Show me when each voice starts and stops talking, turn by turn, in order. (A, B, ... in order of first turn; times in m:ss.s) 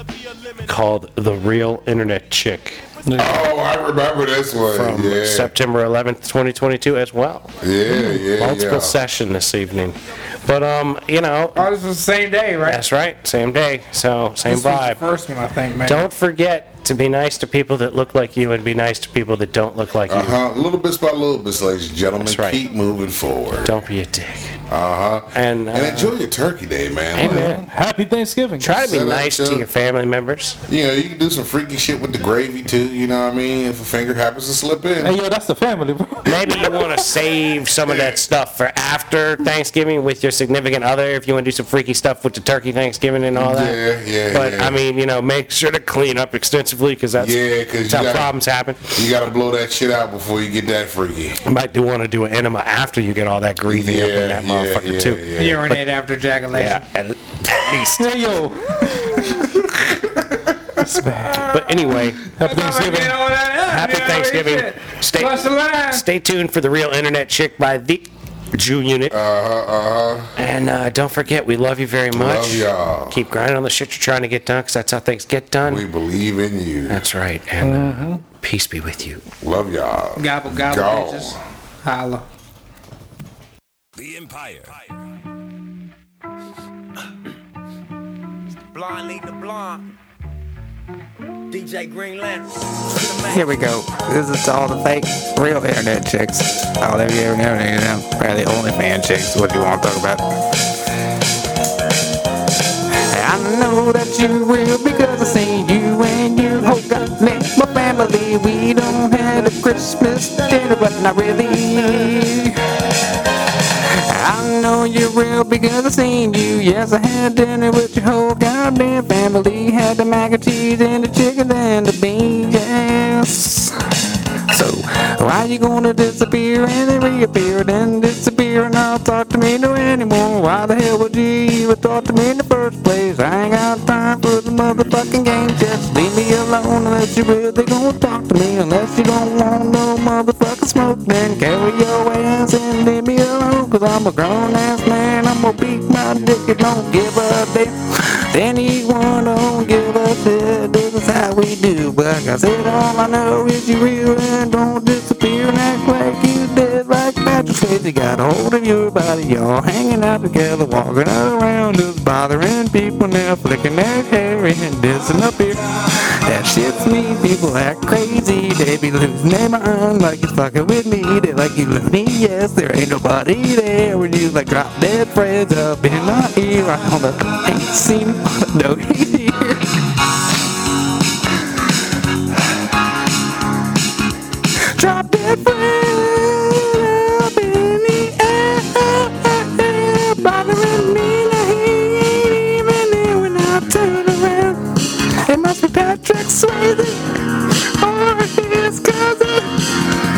0:00.7-0:02.8 A
0:03.1-0:03.4 B
0:03.2-0:05.5 C
0:04.7-0:07.5 A
0:07.6-0:09.0 C
0:08.4-0:11.7 A
0:11.6-0:12.8 D
0:12.6-0:15.0 A
0:14.5-0:16.1 D
0:15.8-0:20.4 A
0:20.1-0:23.7 C
0:22.2-0:22.6 A
0:23.6-0:24.6 A
0:24.7-0:27.6 C
0:25.4-0:26.2 A
0:27.2-0:27.7 A
0:27.2-0:28.7 B
0:28.6-0:30.6 A
0:28.7-0:29.6 C
0:30.7-0:35.2 C
0:35.0-0:36.7 B
0:36.2-0:49.0 A
0:37.9-0:38.2 C
0:43.3-0:44.8 C
0:47.2-0:48.4 C
0:48.9-0:51.4 C
0:51.4-0:55.2 A
0:53.7-0:55.7 C
0:55.4-0:56.8 D
0:56.5-0:58.0 A
0:57.9-0:59.6 B
1:00.8-1:01.5 B
1:01.4-1:02.2 A
1:02.4-1:03.2 B
1:02.4-1:06.0 D
1:03.7-1:09.2 A
1:09.1-1:10.3 C
1:10.4-1:15.8 A
1:12.1-1:13.2 C
1:15.6-1:17.0 C
1:16.9-1:19.2 A
1:17.6-1:18.2 B
1:17.7-1:18.1 D
1:19.4-1:21.4 C
1:20.2-1:22.3 D
1:24.0-1:25.0 E
1:28.7-1:29.9 E
1:31.5-1:33.6 E
1:33.3-1:40.2 F
1:43.1-1:52.6 F
1:53.8-2:03.7 F
2:04.5-2:59.6 F
3:04.7-3:19.5 F